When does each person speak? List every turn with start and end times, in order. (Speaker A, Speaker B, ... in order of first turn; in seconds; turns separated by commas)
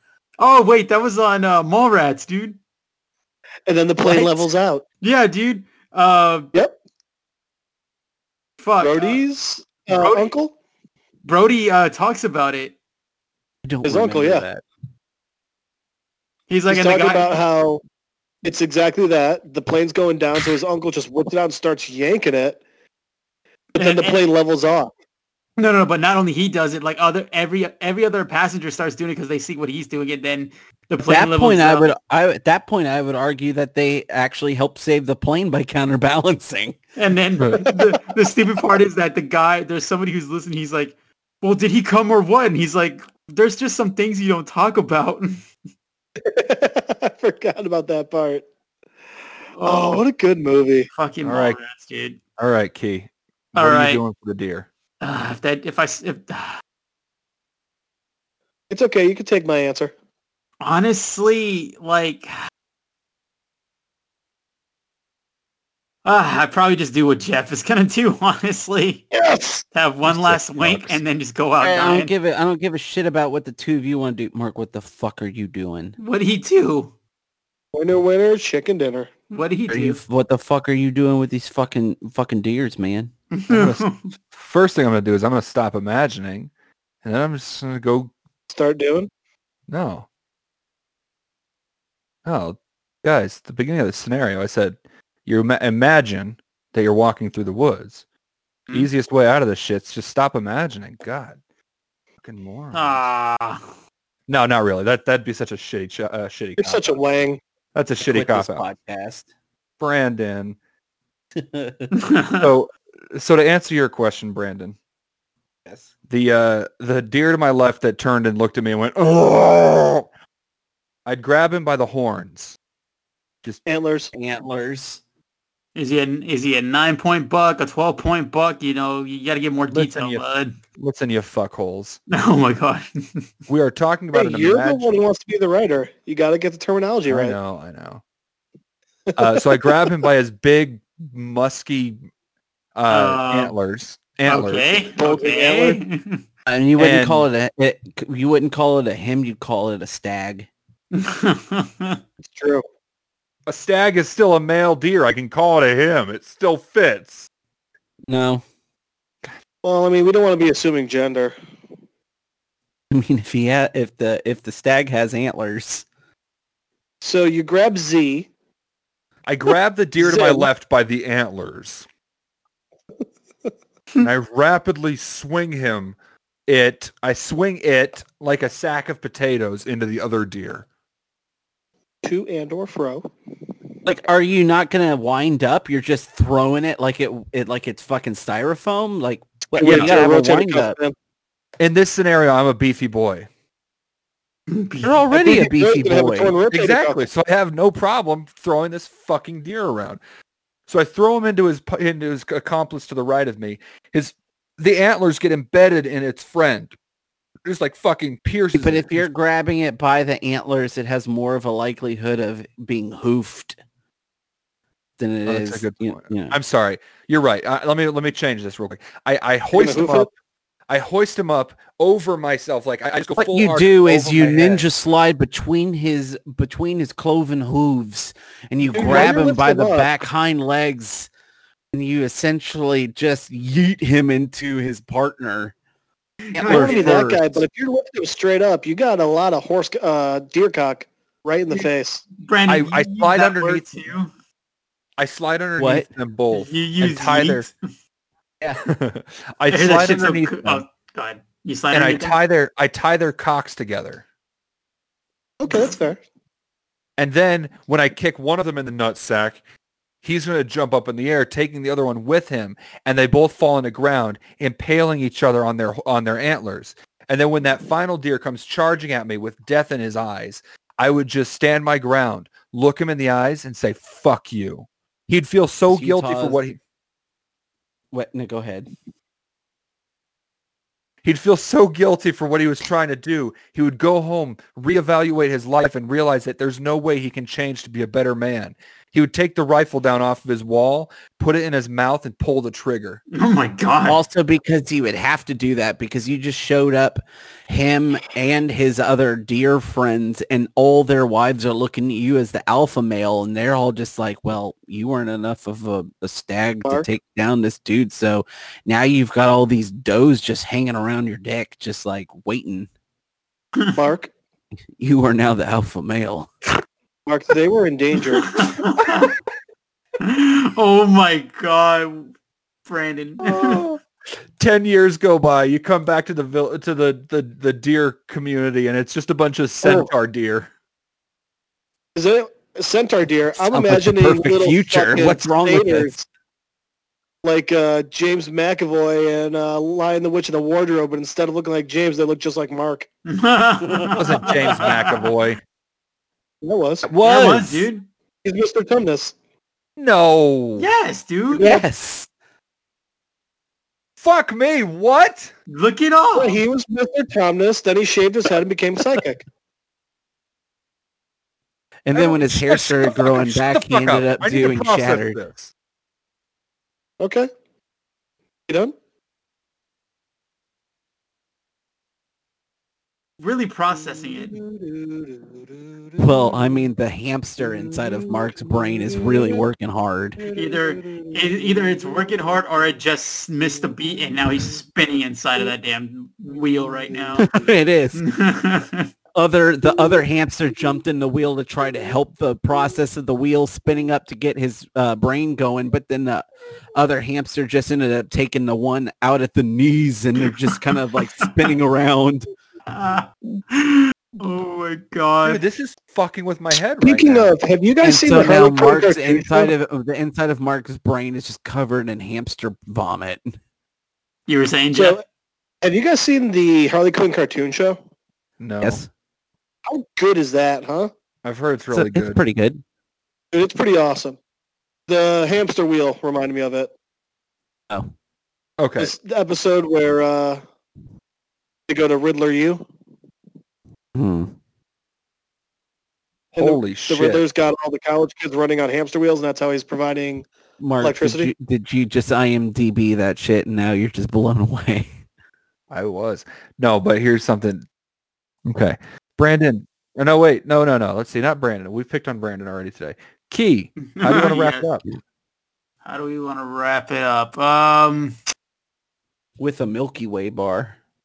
Speaker A: 0.4-2.6, Speaker B: 3.7-4.8, Speaker C: 4.0-4.5, Speaker A: 5.0-6.5, Speaker A: 8.6-9.2, Speaker B: 8.8-10.5, Speaker A: 9.9-10.3, Speaker A: 11.2-12.7, Speaker C: 13.6-14.6, Speaker B: 13.8-14.5, Speaker A: 16.5-17.4, Speaker B: 16.7-17.8, Speaker B: 18.4-22.6, Speaker B: 23.7-24.9, Speaker A: 23.8-24.2, Speaker A: 25.6-31.9, Speaker C: 31.0-36.8, Speaker A: 37.0-45.4, Speaker D: 37.4-37.6, Speaker B: 46.2-48.4, Speaker A: 49.5-50.0, Speaker B: 49.6-50.9, Speaker A: 50.9-52.2, Speaker D: 51.2-51.6, Speaker D: 52.4-54.7, Speaker A: 53.5-54.0, Speaker A: 55.0-56.6, Speaker B: 58.7-59.9, Speaker A: 60.6-62.3, Speaker A: 66.0-69.0, Speaker B: 69.1-69.6, Speaker A: 69.7-72.1, Speaker D: 70.0-71.0, Speaker C: 71.6-76.0, Speaker A: 76.0-76.9, Speaker B: 77.7-79.1, Speaker A: 79.3-80.0, Speaker C: 79.7-83.1, Speaker A: 83.3-84.0, Speaker D: 83.5-86.5, Speaker D: 87.0-88.1, Speaker B: 88.5-89.1, Speaker D: 89.7-90.1, Speaker D: 92.2-98.0, Speaker D: 98.7-101.4, Speaker D: 102.2-103.0, Speaker A: 102.7-103.6, Speaker D: 104.3-107.0, Speaker B: 106.6-107.4, Speaker D: 107.7-108.6, Speaker C: 108.0-109.2, Speaker D: 109.8-110.6, Speaker C: 111.3-111.9, Speaker A: 111.9-112.5, Speaker D: 112.3-114.8, Speaker D: 116.1-120.0, Speaker D: 121.0-122.6, Speaker B: 123.7-124.1, Speaker C: 124.1-125.0, Speaker A: 125.7-130.6, Speaker D: 129.7-130.2, Speaker D: 130.8-132.0, Speaker A: 132.1-133.2, Speaker D: 133.5-134.9, Speaker B: 134.1-137.4, Speaker D: 137.1-138.0, Speaker B: 139.1-139.9, Speaker D: 139.2-142.0, Speaker D: 142.7-144.7, Speaker A: 142.9-143.5, Speaker A: 144.3-146.2, Speaker B: 145.0-145.8, Speaker C: 146.5-150.5, Speaker D: 146.8-147.3, Speaker A: 150.9-152.0, Speaker B: 152.3-152.6, Speaker D: 153.4-157.3, Speaker C: 158.1-158.4, Speaker B: 159.6-161.3, Speaker C: 162.9-165.8, Speaker B: 167.0-168.3, Speaker D: 169.2-171.8, Speaker B: 170.0-170.5, Speaker D: 174.0-180.7, Speaker B: 182.0-183.1, Speaker C: 183.8-190.8, Speaker B: 189.6-190.9, Speaker D: 189.6-190.0, Speaker D: 191.6-193.3, Speaker A: 194.5-195.1, Speaker C: 194.8-196.3, Speaker B: 195.1-197.0, Speaker D: 196.5-200.0, Speaker D: 200.7-206.7, Speaker D: 207.4-209.1, Speaker C: 208.5-213.6, Speaker C: 215.0-216.3, Speaker D: 215.2-220.1, Speaker B: 219.5-220.1, Speaker D: 220.7-224.7, Speaker C: 223.2-231.1, Speaker D: 228.7-229.1, Speaker B: 228.7-229.9, Speaker C: 231.7-235.5, Speaker A: 236.2-237.0, Speaker C: 236.3-237.4, Speaker B: 236.5-242.0, Speaker A: 242.2-244.1, Speaker D: 242.5-243.6, Speaker D: 245.0-247.5, Speaker C: 245.6-245.9, Speaker A: 246.3-247.5, Speaker D: 248.7-250.6, Speaker A: 249.5-252.2, Speaker D: 251.7-254.0, Speaker B: 255.4-256.0, Speaker D: 257.0-259.4, Speaker D: 260.0-276.6, Speaker C: 275.7-276.4, Speaker C: 277.9-278.7, Speaker D: 281.0-293.0, Speaker A: 293.1-294.0, Speaker C: 293.9-312.7, Speaker B: 313.7-314.1, Speaker C: 314.8-316.3, Speaker B: 317.1-318.4, Speaker A: 318.1-319.1, Speaker A: 320.0-322.1, Speaker A: 322.6-323.6, Speaker B: 323.2-323.8, Speaker D: 324.4-330.5, Speaker B: 329.6-329.9, Speaker B: 331.9-336.0, Speaker C: 333.3-335.9, Speaker B: 337.2-342.9, Speaker A: 343.1-345.1, Speaker D: 344.0-345.4, Speaker B: 346.4-346.9, Speaker D: 346.8-347.7, Speaker A: 347.0-347.9, Speaker B: 348.2-349.1, Speaker D: 349.8-350.7, Speaker A: 350.6-351.6, Speaker C: 351.3-352.1, Speaker D: 354.0-355.3, Speaker A: 355.5-356.4, Speaker B: 356.1-359.2, Speaker C: 361.8-365.2, Speaker D: 361.9-365.5, Speaker B: 367.0-367.3, Speaker B: 368.5-368.7, Speaker A: 373.2-374.4, Speaker B: 374.3-376.3, Speaker C: 376.0-380.2, Speaker B: 379.0-379.4, Speaker B: 380.2-381.1, Speaker A: 380.3-387.3, Speaker C: 387.2-388.0, Speaker A: 387.9-388.9, Speaker C: 389.1-402.3, Speaker A: 402.7-405.4, Speaker D: 405.2-407.3, Speaker B: 406.8-409.5, Speaker C: 407.8-413.3, Speaker A: 414.3-415.0, Speaker B: 414.7-415.0, Speaker B: 415.6-417.8, Speaker D: 418.4-418.8, Speaker C: 418.6-418.9, Speaker B: 419.7-420.9, Speaker D: 421.2-422.2, Speaker C: 421.7-422.6, Speaker B: 423.3-424.2, Speaker B: 424.9-426.7, Speaker D: 428.6-428.9, Speaker B: 428.8-430.4, Speaker B: 431.7-432.7, Speaker C: 433.9-434.3, Speaker B: 436.3-440.3, Speaker D: 436.4-437.2, Speaker C: 440.6-444.9, Speaker B: 440.8-441.3, Speaker D: 445.7-447.6, Speaker D: 448.5-454.8, Speaker A: 453.9-454.7, Speaker A: 455.8-458.1, Speaker C: 459.4-460.8